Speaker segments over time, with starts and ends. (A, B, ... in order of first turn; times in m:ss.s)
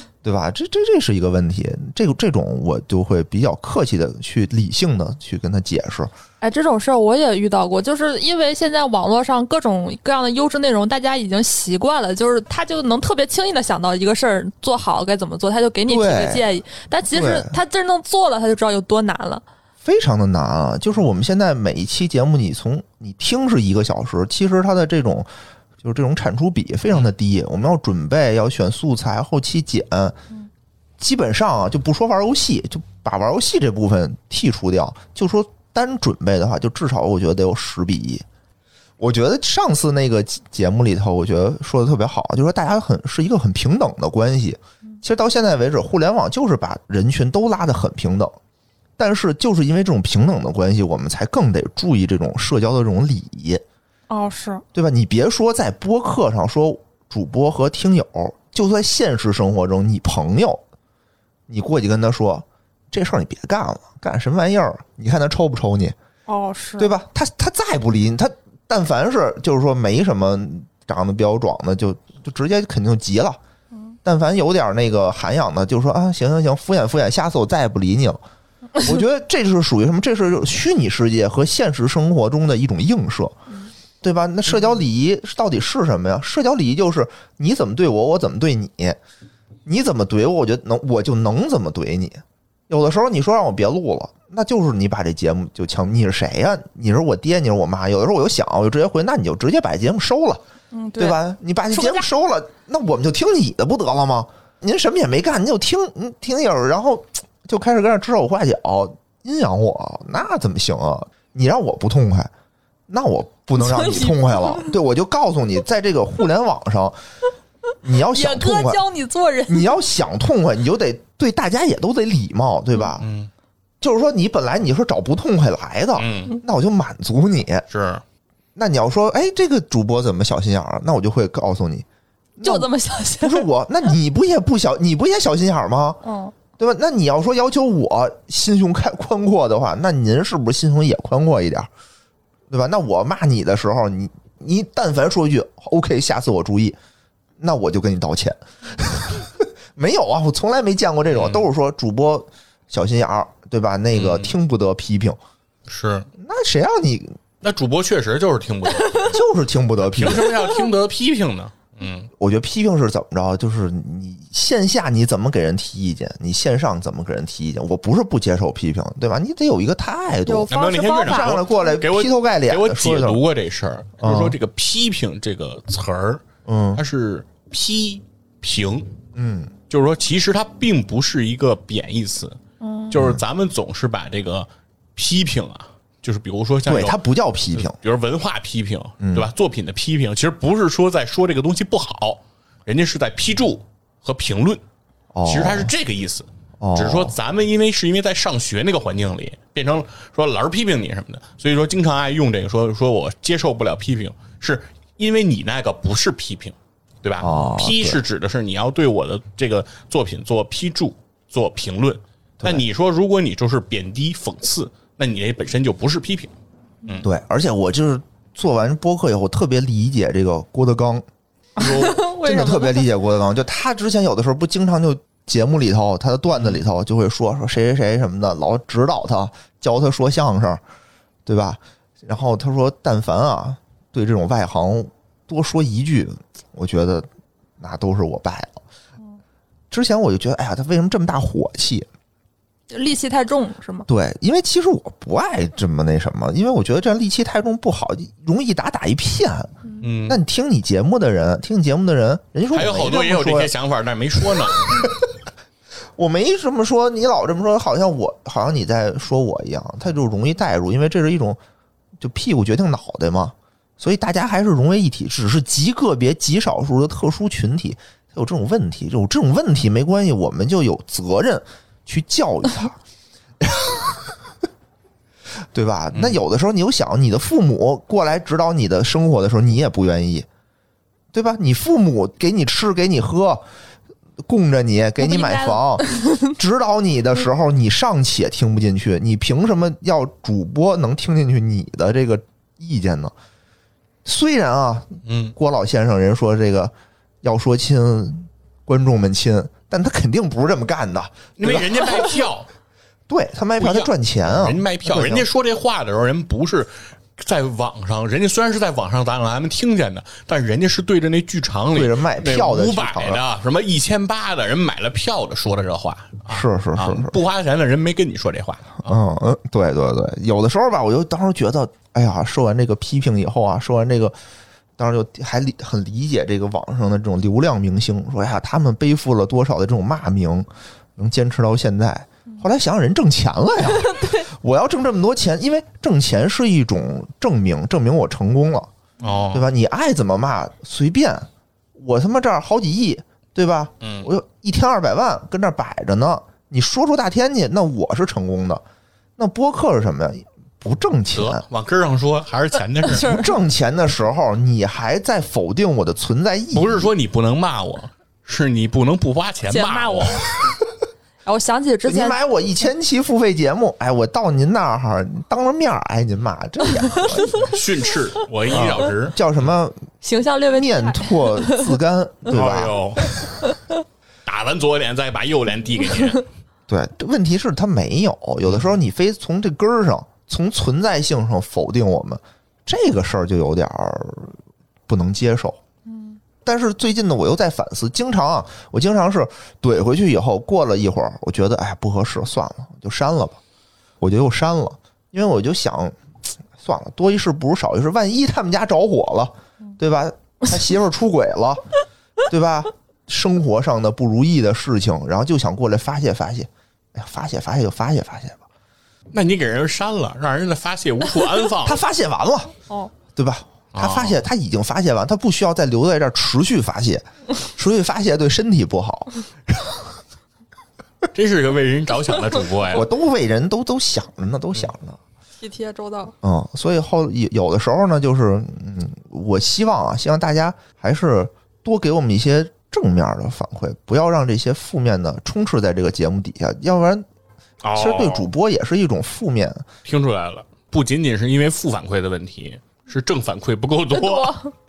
0:00.2-0:06.1 A
0:06.4-0:19.4 B
0:15.9-0:16.5 A
0:17.1-0:17.6 A
0:19.8-0:25.3 A
0:25.8-0:30.2 A
0:31.0-0:38.2 A
0:39.0-0:48.4 A
0:49.0-0:53.6 A
0:54.1-0:54.6 B
0:54.7-1:00.6 A
1:01.5-1:06.0 A
1:06.3-1:06.9 B
1:06.8-1:13.4 A
1:14.0-1:18.2 A
1:18.8-1:23.4 A
1:24.0-1:29.0 A
1:29.7-1:40.4 A
1:40.7-1:41.2 B
1:41.0-1:52.3 A
1:41.7-1:42.1 B
1:52.9-1:57.0 A
1:53.6-1:54.7 B
1:57.8-1:58.8 A
1:58.1-1:59.7 B
1:59.5-2:03.1 A
2:03.0-2:03.3 C
2:03.8-2:07.7 A
2:06.0-2:06.4 C
2:07.7-2:08.0 C
2:08.6-2:11.8 A
2:12.4-2:12.7 A
2:12.4-2:13.5 B
2:13.2-2:16.0 A
2:16.0-2:16.3 B
2:16.6-2:21.7 A
2:22.5-2:26.8 A
2:27.4-2:35.2 A
2:31.1-2:31.5 C
2:33.9-2:34.4 C
2:35.7-2:36.1 C
2:36.2-2:37.2 A
2:37.4-2:39.2 C
2:39.1-2:40.4 A
2:39.8-2:42.1 C
2:42.2-2:53.2 A
2:50.3-2:51.8 B
2:50.5-2:58.9 C
2:54.0-2:54.4 A
2:56.5-2:56.8 A
2:59.2-2:59.5 A
2:59.7-3:02.4 C
3:02.6-3:03.0 B
3:02.9-3:07.0 C
3:02.9-3:03.2 A
3:06.7-3:07.8 A
3:07.5-3:14.6 C
3:09.0-3:09.3 A
3:15.1-3:15.7 A
3:15.2-3:36.3 C
3:16.6-3:17.2 A
3:27.2-3:28.0 A
3:37.0-3:41.0 A
3:41.6-3:42.0 C
3:41.6-3:42.9 B
3:42.2-3:50.6 A
3:46.3-3:46.6 C
3:51.3-3:57.1 A
3:57.6-3:58.6 A
3:59.7-4:01.9 A
4:02.7-4:03.9 B
4:03.9-4:09.6 A
4:09.8-4:10.2 C
4:10.1-4:13.5 A
4:12.5-4:14.9 C
4:14.3-4:15.0 A
4:16.0-4:21.4 A
4:22.0-4:32.8 A
4:33.4-4:34.1 A
4:35.5-4:40.3 A
4:35.9-4:36.2 C
4:41.1-4:43.4 A
4:44.2-4:53.1 A
4:45.0-4:46.3 B
4:54.0-5:02.1 A
4:55.0-4:55.4 C
5:01.4-5:02.5 C
5:03.1-5:05.3 A
5:03.6-5:18.9 C
5:11.7-5:13.2 A
5:16.3-5:17.2 A
5:18.8-5:24.2 A
5:24.8-5:38.7 A
5:33.8-5:34.2 B
5:39.0-5:39.5 C
5:39.3-5:48.6 A
5:43.8-5:44.1 C
5:49.2-5:51.4 A
5:51.1-5:53.2 C
5:52.8-5:53.3 B
5:53.0-5:56.9 A
5:56.5-6:00.2 C
5:59.4-6:00.3 B
6:01.2-6:02.2 B
6:01.9-6:07.5 A
6:07.4-6:09.2 C
6:08.5-6:09.8 A
6:10.0-6:11.7 B
6:10.6-6:12.8 A
6:12.3-6:13.4 C
6:14.2-6:16.2 C
6:16.7-6:24.3 A
6:24.9-6:25.6 A
6:25.9-6:26.2 B
6:26.4-6:33.4 A
6:34.0-6:36.0 A
6:36.6-6:41.6 A
6:42.3-6:48.4 A
6:49.1-6:51.8 C
6:51.6-6:52.5 A
6:53.1-6:59.8 A
6:53.7-6:54.2 C
7:01.1-7:02.9 C
7:02.7-7:05.0 A
7:05.4-7:06.1 B
7:06.2-7:17.0 A
7:17.6-7:18.3 C
7:17.7-7:19.7 A
7:19.8-7:24.4 C
7:23.9-7:24.5 B